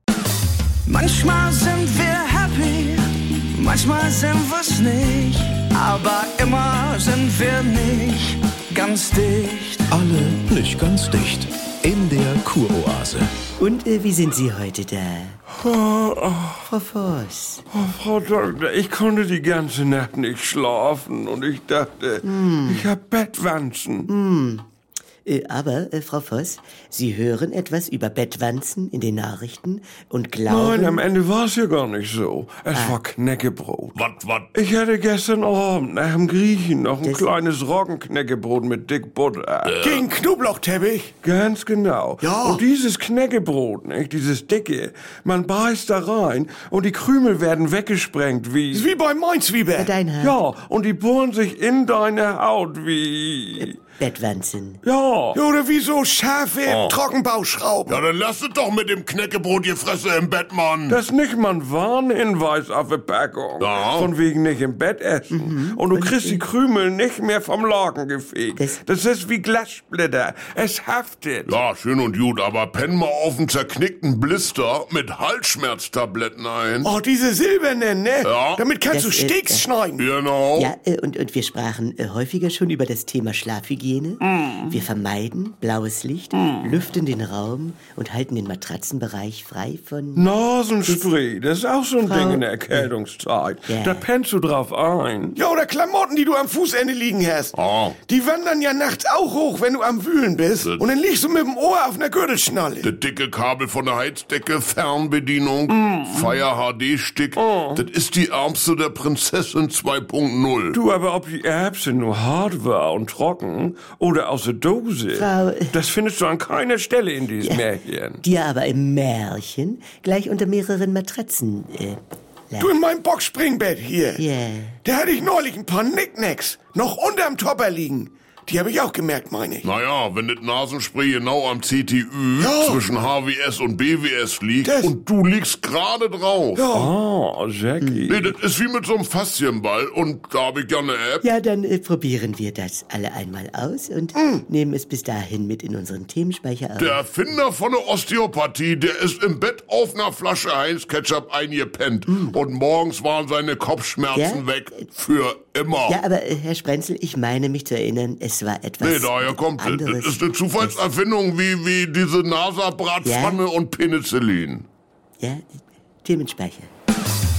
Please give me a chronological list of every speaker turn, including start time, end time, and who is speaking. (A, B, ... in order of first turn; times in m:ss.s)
0:00.8-0:09.9 A
0:09.9-0:13.3 B
0:13.6-0:15.4 C
0:15.6-0:16.6 D
0:16.7-0:17.6 C
0:17.7-0:24.1 D
0:22.2-0:22.9 C
0:24.1-0:24.6 C
0:25.2-0:31.0 C
0:30.5-0:34.0 D
0:32.7-0:33.0 C
0:33.9-0:34.5 E
0:34.5-0:40.0 D
0:37.0-0:37.3 C
0:39.6-0:40.0 E
0:39.8-0:41.1 F
0:41.2-0:48.9 D
0:42.2-0:42.6 F
0:48.7-0:49.9 F
0:49.8-0:50.4 C
0:50.2-0:53.7 D
0:53.6-0:54.8 C
0:54.8-0:55.4 D
0:55.3-0:58.0 F
0:56.6-0:57.0 E
0:57.9-1:01.0 E
1:00.9-1:11.6 D
1:03.6-1:04.1 E
1:05.3-1:06.5 C
1:11.5-1:16.9 E
1:16.8-1:20.0 F
1:18.2-1:18.6 E
1:18.9-1:19.6 C
1:20.0-1:20.7 E
1:20.5-1:30.3 C
1:24.2-1:24.8 D
1:26.3-1:26.7 D
1:30.1-1:35.4 D
1:30.8-1:31.1 C
1:32.0-1:32.9 C
1:33.7-1:34.0 C
1:35.4-1:42.9 F
1:37.5-1:38.0 E
1:40.6-1:40.9 E
1:42.8-1:50.8 E
1:45.7-1:46.4 D
1:47.3-1:47.8 D
1:50.7-1:58.2 D
1:55.1-1:55.8 C
1:58.2-2:02.7 C
2:02.6-2:04.2 F
2:04.2-2:04.8 C
2:04.8-2:09.6 F
2:09.6-2:16.6 E
2:12.4-2:12.8 F
2:14.6-2:14.9 F
2:16.5-2:16.9 F
2:16.7-2:18.3 D
2:17.8-2:18.1 C
2:18.1-2:21.2 E
2:21.2-2:27.0 C
2:24.2-2:24.4 F
2:26.8-2:36.0 E
2:32.1-2:32.4 C
2:34.1-2:34.8 C
2:35.9-2:40.9 C
2:38.8-2:44.7 E
2:43.0-2:43.4 C
2:45.2-2:46.7 C